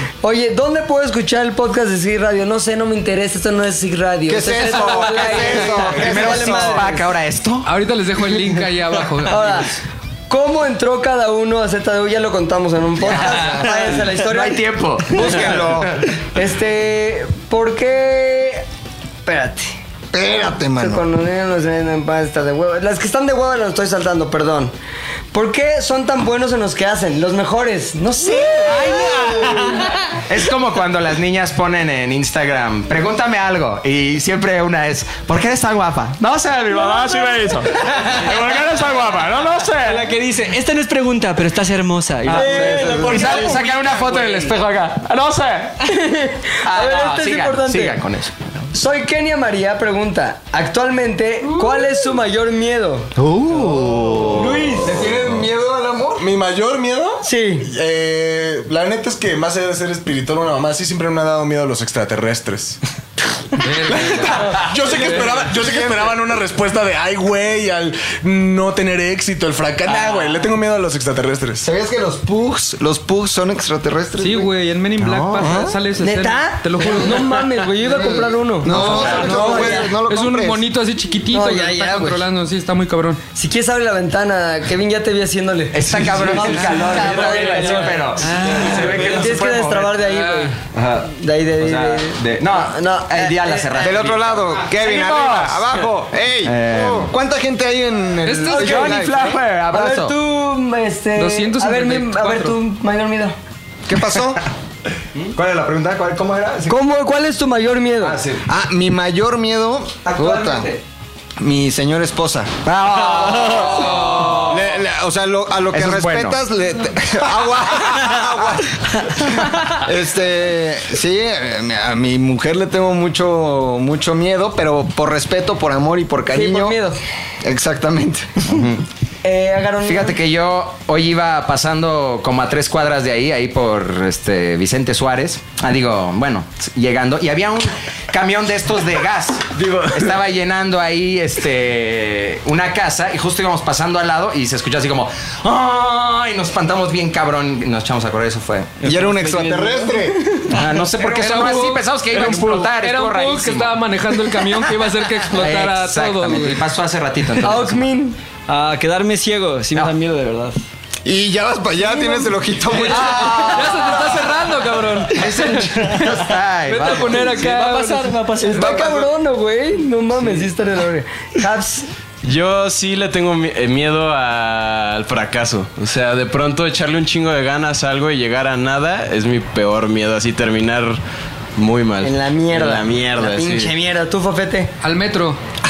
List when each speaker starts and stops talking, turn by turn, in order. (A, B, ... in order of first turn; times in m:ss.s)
0:00.2-0:07.0 A
0:04.3-0:06.9 B
0:05.3-0:07.7 C
0:07.6-0:09.6 D
0:09.2-0:09.8 A
0:10.3-0:14.6 A
0:13.1-0:13.9 B
0:13.1-0:16.0 C
0:15.1-0:16.0 B
0:15.2-0:15.6 A
0:16.3-0:18.6 A
0:19.2-0:19.8 A
0:20.1-0:21.0 B
0:20.8-0:24.7 A
0:25.3-0:29.6 A
0:28.6-0:40.1 C
0:39.8-0:43.6 E
0:42.3-0:43.3 A
0:42.3-0:45.8 C
0:42.8-0:43.5 B
0:43.6-0:44.2 F
0:45.8-0:48.0 A
0:46.6-0:48.4 C
0:48.7-0:53.1 A
0:53.2-0:54.5 C
0:53.4-0:56.2 B
0:54.3-0:55.1 A
0:56.2-1:02.8 G
0:57.2-0:57.7 A
1:03.6-1:04.7 D
1:03.8-1:11.6 G
1:05.5-1:06.0 B
1:11.6-1:15.8 B
1:14.2-1:17.4 D
1:16.0-1:19.9 A
1:17.8-1:20.6 B
1:18.6-1:23.2 D
1:18.8-1:19.6 C
1:21.3-1:22.2 A
1:23.3-1:28.1 A
1:25.7-1:29.9 C
1:28.2-1:29.0 D
1:28.9-1:33.9 A
1:30.0-1:30.5 D
1:30.7-1:31.0 C
1:31.6-1:35.6 C
1:33.8-1:39.4 B
1:36.4-1:37.1 C
1:38.2-1:39.1 D
1:38.5-1:40.1 C
1:39.7-1:43.4 A
1:41.2-1:42.6 D
1:43.9-1:44.4 B
1:45.2-1:46.8 C
1:46.7-1:48.2 A
1:48.0-1:48.4 C
1:48.4-1:50.7 B
1:50.0-1:50.8 A
1:51.4-1:52.6 B
1:52.6-1:54.7 C
1:53.2-2:06.8 B
1:53.5-1:54.4 D
1:55.7-1:56.4 C
2:06.3-2:07.0 A
2:07.4-2:08.6 B
2:08.5-2:08.8 C
2:09.2-2:10.2 A
2:09.8-2:28.8 C
2:28.8-2:30.4 E
2:28.8-2:30.3 B
2:30.5-2:33.8 C
2:31.0-2:36.6 D
2:35.3-2:37.8 C
2:37.4-2:38.2 A
2:38.5-2:40.6 E
2:41.0-2:44.0 B
2:41.8-2:42.3 A
2:42.8-2:46.1 D
2:42.9-2:44.1 C
2:45.1-2:47.4 C
2:46.7-2:48.2 D
2:47.2-2:49.0 E
2:48.4-2:51.9 A
2:52.2-3:01.0 F
3:01.6-3:03.7 F
3:02.0-3:04.7 A
3:04.8-3:05.4 D